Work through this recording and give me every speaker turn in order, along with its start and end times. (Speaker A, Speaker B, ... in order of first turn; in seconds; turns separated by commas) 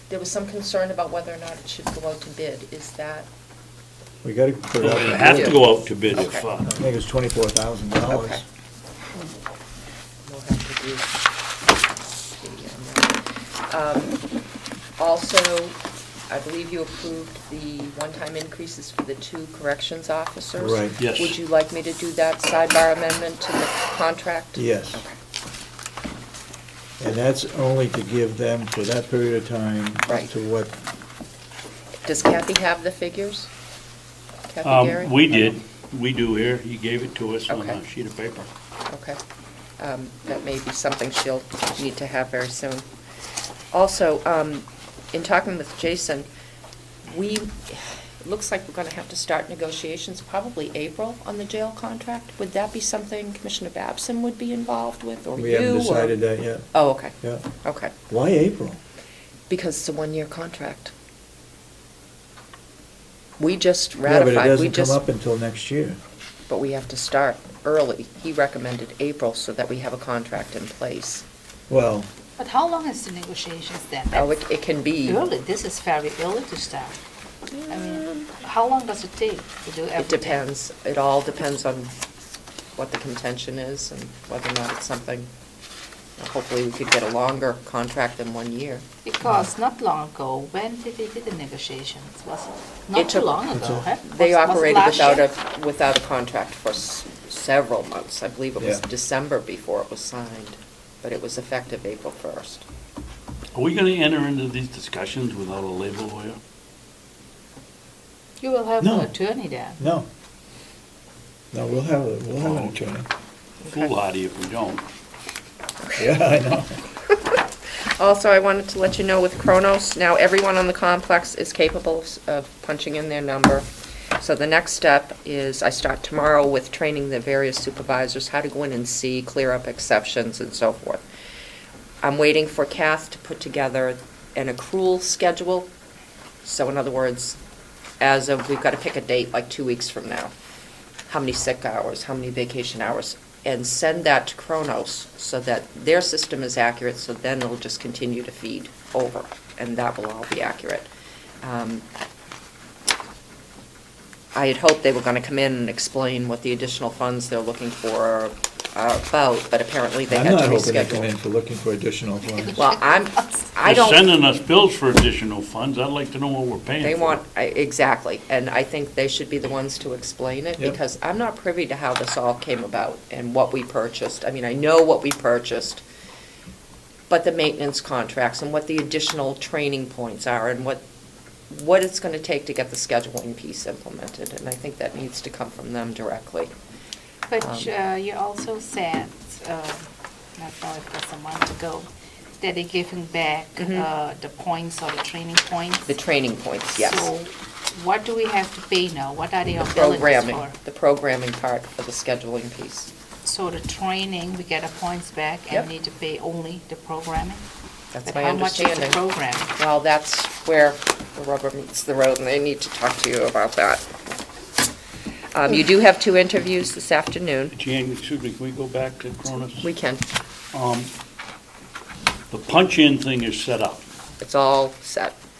Speaker A: 0.1-3.3, Speaker B: 4.2-5.6, Speaker C: 4.8-6.7, Speaker A: 5.1-6.5, Speaker B: 6.6-8.4, Speaker A: 8.1-8.4, Speaker A: 10.3-11.1, Speaker A: 12.3-14.2, Speaker A: 15.0-15.8, Speaker A: 16.3-24.6, Speaker B: 20.6-21.0, Speaker C: 21.0-21.4, Speaker B: 24.6-25.0, Speaker B: 27.0-30.7, Speaker A: 30.1-30.3, Speaker A: 32.0-33.5, Speaker A: 34.5-35.1, Speaker C: 34.6-38.5, Speaker B: 35.3-35.6, Speaker A: 37.5-37.8, Speaker A: 38.9-39.2, Speaker A: 39.8-42.8, Speaker A: 43.7-46.3, Speaker A: 47.0-56.2, Speaker B: 55.4-56.7, Speaker A: 56.7-57.9, Speaker B: 57.2-57.5, Speaker B: 58.1-58.8, Speaker A: 59.5-60.9, Speaker A: 63.4-65.0, Speaker B: 64.0-66.0, Speaker A: 66.5-71.2, Speaker B: 71.7-72.1, Speaker D: 72.4-74.3, Speaker A: 74.1-75.3, Speaker D: 75.0-77.0, Speaker A: 77.5-78.3, Speaker D: 77.7-80.4, Speaker A: 80.0-81.9, Speaker A: 82.8-85.3, Speaker A: 86.2-88.8, Speaker D: 89.0-95.3, Speaker B: 89.2-89.5, Speaker A: 92.9-93.4, Speaker B: 93.5-93.9, Speaker A: 93.9-102.7, Speaker B: 98.6-98.8, Speaker C: 103.5-106.4, Speaker D: 108.4-109.8, Speaker B: 108.8-109.2, Speaker B: 109.8-110.1, Speaker B: 111.5-113.1, Speaker C: 112.3-112.8, Speaker A: 113.6-113.9, Speaker C: 113.7-114.8, Speaker A: 115.8-116.2, Speaker B: 116.0-116.8, Speaker A: 117.0-117.4, Speaker A: 118.0-123.7, Speaker A: 124.2-131.0, Speaker A: 132.0-135.7, Speaker A: 136.4-137.4, Speaker A: 138.0-140.3, Speaker A: 141.1-150.9, Speaker A: 151.4-151.8, Speaker A: 154.3-161.1, Speaker B: 160.1-162.6, Speaker A: 162.5-164.0, Speaker C: 163.6-167.2, Speaker A: 166.8-175.8, Speaker A: 177.1-180.8, Speaker A: 181.5-186.5, Speaker D: 187.3-191.9, Speaker A: 187.4-187.7, Speaker D: 192.4-195.9, Speaker A: 193.6-193.9, Speaker A: 195.9-197.1, Speaker D: 196.7-200.6, Speaker A: 199.7-202.9, Speaker D: 203.2-207.4, Speaker A: 207.9-209.0, Speaker D: 208.0-209.5, Speaker A: 209.5-213.8, Speaker A: 215.3-217.5, Speaker C: 217.5-219.7, Speaker A: 219.6-220.0, Speaker C: 220.5-220.9, Speaker C: 222.3-223.8, Speaker A: 224.2-225.1